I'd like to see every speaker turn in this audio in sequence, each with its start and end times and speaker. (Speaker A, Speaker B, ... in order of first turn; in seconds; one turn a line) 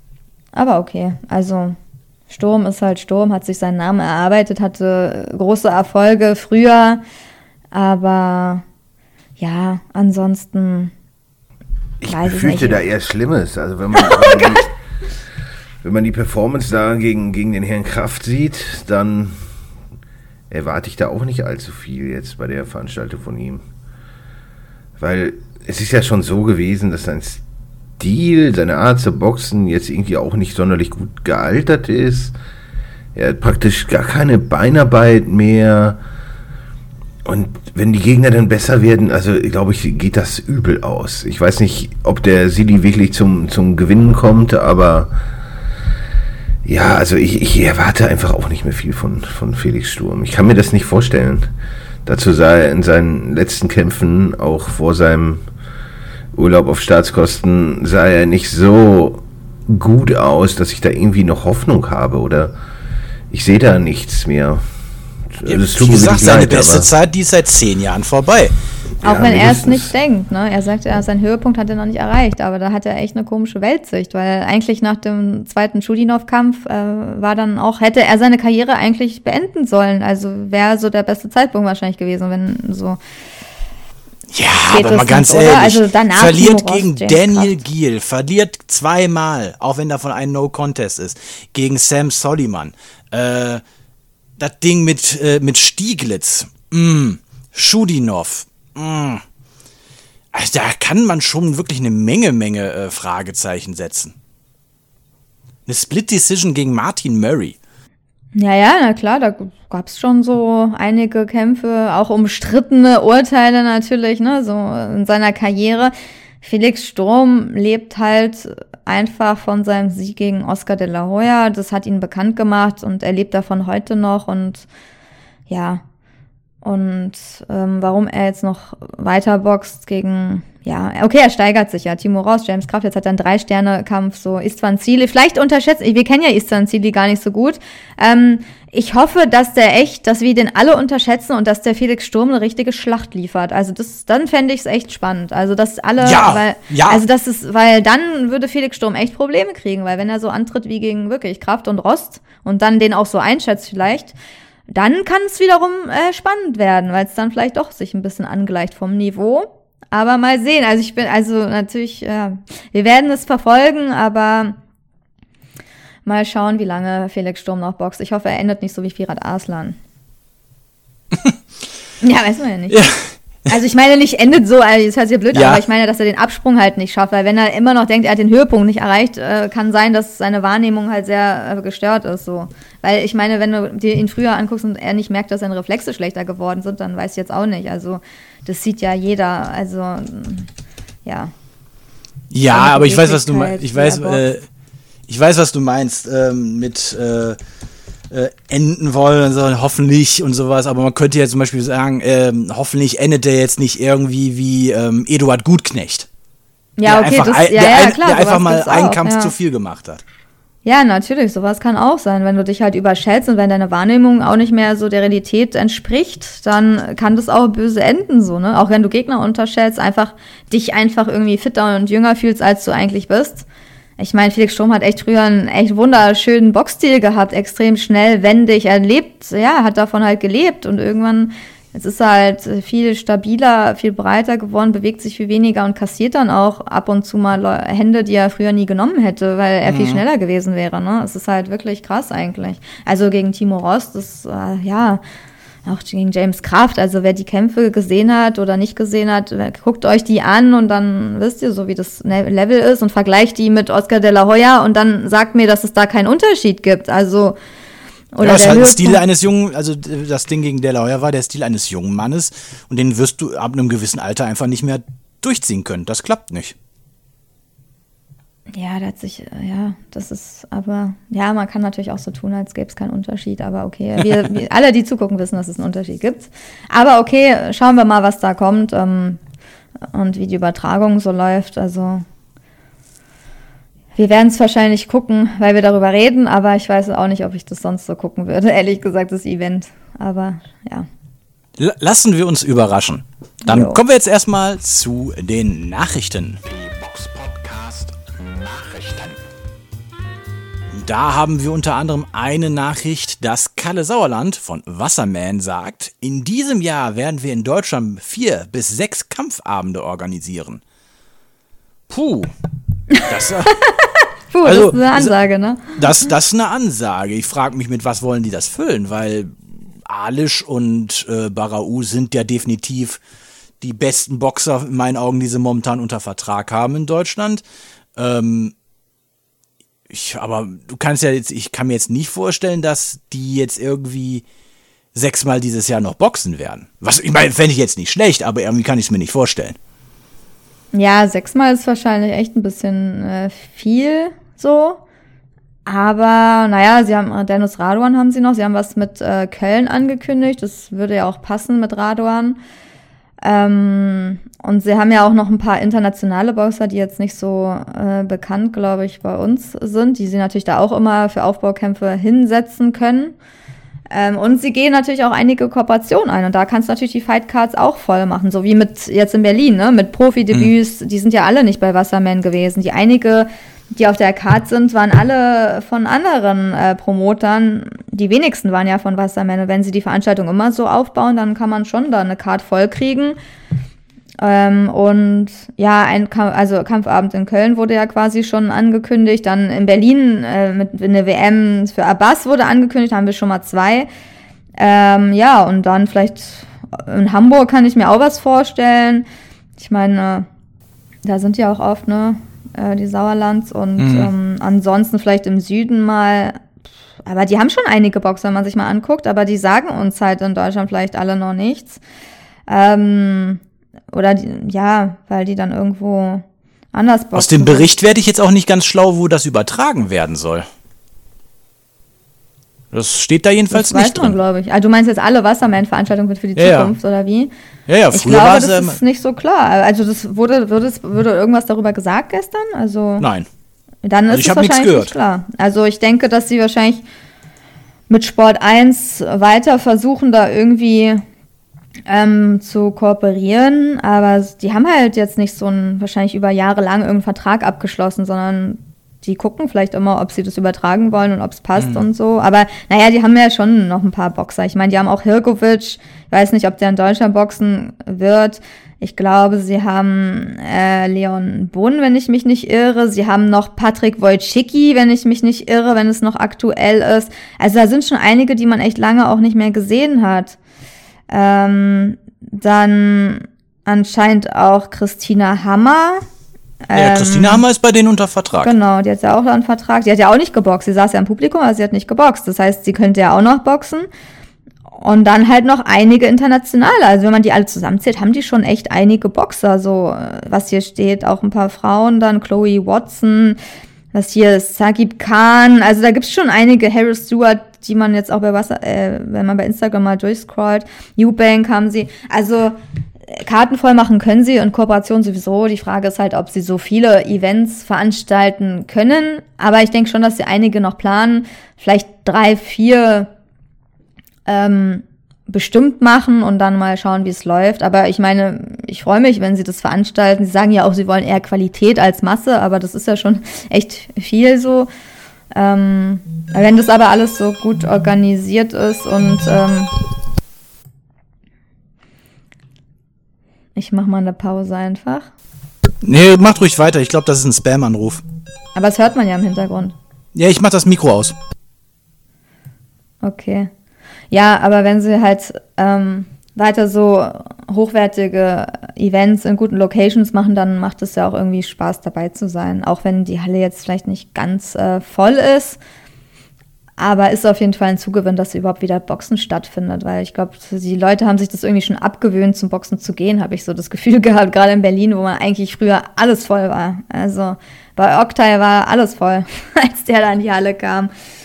Speaker A: 0.5-1.8
Speaker A: 2.3-7.0
Speaker A: 7.7-8.6
Speaker A: 9.4-10.9
Speaker B: 12.0-14.7
Speaker A: 12.1-12.8
Speaker A: 14.0-14.4
Speaker B: 15.8-19.4
Speaker B: 20.5-23.6
Speaker B: 25.0-27.4
Speaker B: 28.0-32.3
Speaker B: 33.1-36.0
Speaker B: 37.2-45.1
Speaker B: 46.6-51.5
Speaker B: 52.0-55.4
Speaker B: 56.3-62.5
Speaker B: 63.3-64.6
Speaker B: 65.3-66.9
Speaker C: 65.4-68.5
Speaker A: 69.0-83.0
Speaker B: 69.0-69.9
Speaker C: 84.3-93.6
Speaker A: 84.7-87.6
Speaker C: 94.4-99.2
Speaker C: 100.3-104.2
Speaker C: 105.7-107.6
Speaker A: 108.3-124.7
Speaker A: 125.5-125.8
Speaker A: 126.6-154.1
Speaker C: 146.0-147.0
Speaker A: 154.7-164.6
Speaker A: 166.0-169.8
Speaker A: 172.0-172.8
Speaker C: 172.7-173.1
Speaker A: 173.5-190.5
Speaker C: 175.3-175.6
Speaker A: 191.0-191.3
Speaker C: 192.3-194.5
Speaker A: 192.5-194.2
Speaker C: 195.1-197.4
Speaker C: 198.1-206.1
Speaker A: 206.8-209.3
Speaker C: 206.8-210.0
Speaker A: 210.6-223.4
Speaker A: 224.0-245.0
Speaker C: 239.6-240.0
Speaker A: 245.6-257.4
Speaker A: 258.1-259.0
Speaker C: 258.2-266.5
Speaker A: 268.5-279.2
Speaker A: 279.9-282.0
Speaker A: 283.9-290.9
Speaker C: 291.6-299.1
Speaker A: 293.4-293.8
Speaker C: 300.7-310.6
Speaker C: 311.9-312.3
Speaker A: 312.9-315.8
Speaker C: 313.1-313.5
Speaker C: 314.4-315.1
Speaker C: 315.7-323.0
Speaker C: 323.6-327.4
Speaker C: 327.9-328.5
Speaker C: 329.9-334.2
Speaker C: 334.9-339.6
Speaker A: 340.7-344.8
Speaker A: 345.6-352.4
Speaker A: 353.2-363.1
Speaker A: 363.9-383.2
Speaker A: 384.2-393.9
Speaker A: 394.6-399.0
Speaker A: 399.6-400.3
Speaker A: 401.0-406.4
Speaker C: 403.8-404.1
Speaker A: 407.1-411.8
Speaker A: 412.5-417.7
Speaker C: 417.1-420.4
Speaker C: 422.7-424.1
Speaker A: 423.5-427.3
Speaker C: 426.4-426.7
Speaker C: 427.7-428.8
Speaker A: 427.9-433.1
Speaker C: 433.0-433.3
Speaker A: 433.8-436.8
Speaker C: 434.1-434.9
Speaker A: 437.9-441.0
Speaker A: 441.9-470.4
Speaker C: 451.6-451.8
Speaker A: 471.1-476.0
Speaker A: 476.7-477.4
Speaker C: 476.7-478.5
Speaker A: 478.4-483.9
Speaker A: 484.7-493.4
Speaker A: 493.9-502.6
Speaker A: 503.1-513.1
Speaker A: 514.2-524.7
Speaker A: 525.4-529.7
Speaker A: 533.5-535.1
Speaker C: 535.8-538.0
Speaker A: 538.5-539.7
Speaker C: 540.1-541.1
Speaker A: 543.0-543.5
Speaker A: 544.1-555.6
Speaker A: 556.8-570.9